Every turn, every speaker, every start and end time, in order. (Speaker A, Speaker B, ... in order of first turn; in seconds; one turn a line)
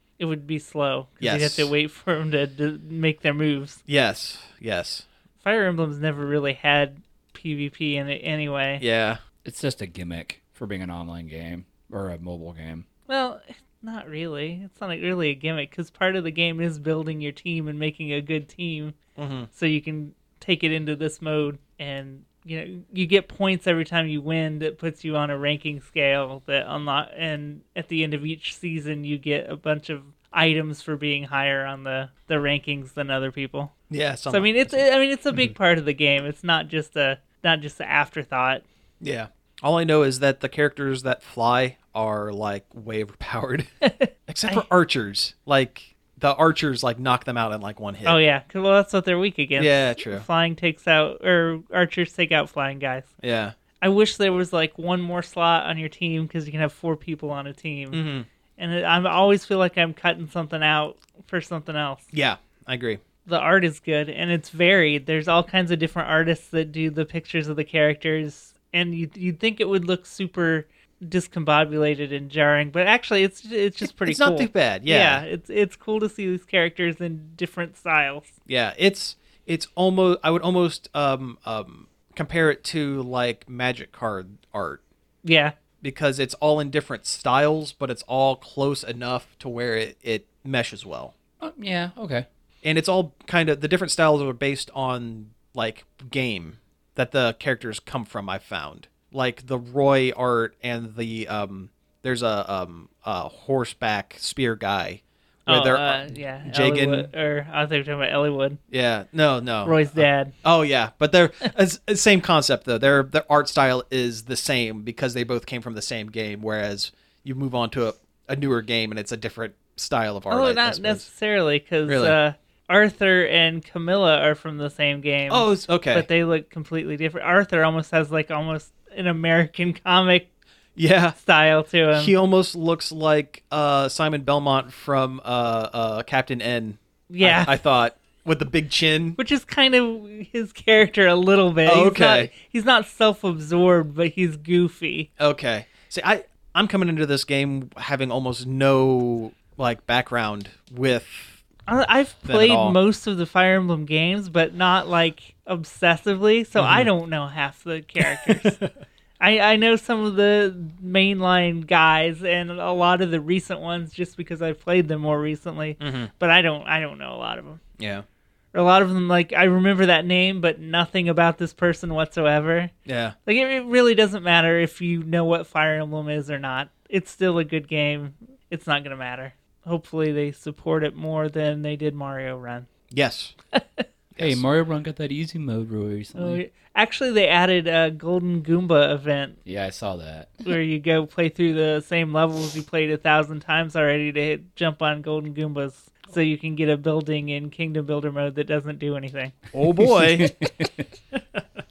Speaker A: 0.2-3.8
Speaker B: 1.2-1.7
Speaker B: 3.9-5.1
Speaker A: 5.4-8.8
Speaker B: 8.8-9.2
Speaker C: 9.4-12.9
Speaker A: 13.1-19.0
Speaker B: 19.2-19.5
Speaker A: 19.5-33.7
Speaker B: 33.9-34.9
Speaker A: 34.3-38.6
Speaker B: 39.0-43.7
Speaker A: 43.8-44.6
Speaker B: 44.3-48.2
Speaker A: 48.0-53.1
Speaker B: 49.6-50.2
Speaker B: 53.2-53.5
Speaker A: 53.8-58.0
Speaker B: 57.9-58.3
Speaker A: 58.6-62.1
Speaker B: 62.1-63.0
Speaker A: 63.3-78.3
Speaker B: 73.8-75.2
Speaker B: 78.5-84.8
Speaker A: 85.2-85.5
Speaker B: 85.8-91.1
Speaker C: 91.4-92.3
Speaker B: 92.6-107.1
Speaker A: 105.5-108.6
Speaker B: 108.7-121.1
Speaker A: 109.7-110.3
Speaker A: 120.3-130.3
Speaker B: 121.9-122.2
Speaker B: 125.3-126.1
Speaker B: 130.8-131.2
Speaker A: 131.2-132.1
Speaker B: 131.9-139.2
Speaker A: 137.1-137.6
Speaker A: 139.2-145.1
Speaker B: 141.7-142.3
Speaker B: 145.2-151.4
Speaker A: 151.7-158.6
Speaker B: 152.2-152.8
Speaker B: 156.6-156.9
Speaker B: 158.0-158.7
Speaker A: 159.2-167.6
Speaker B: 165.8-166.1
Speaker B: 167.8-168.1
Speaker A: 168.5-172.7
Speaker B: 172.9-173.2
Speaker A: 173.3-182.7
Speaker B: 182.9-183.3
Speaker A: 183.5-183.8
Speaker B: 184.2-184.4
Speaker C: 184.2-186.4
Speaker A: 186.2-189.4
Speaker C: 189.5-190.4
Speaker A: 190.4-199.4
Speaker B: 199.5-200.3
Speaker C: 200.0-200.8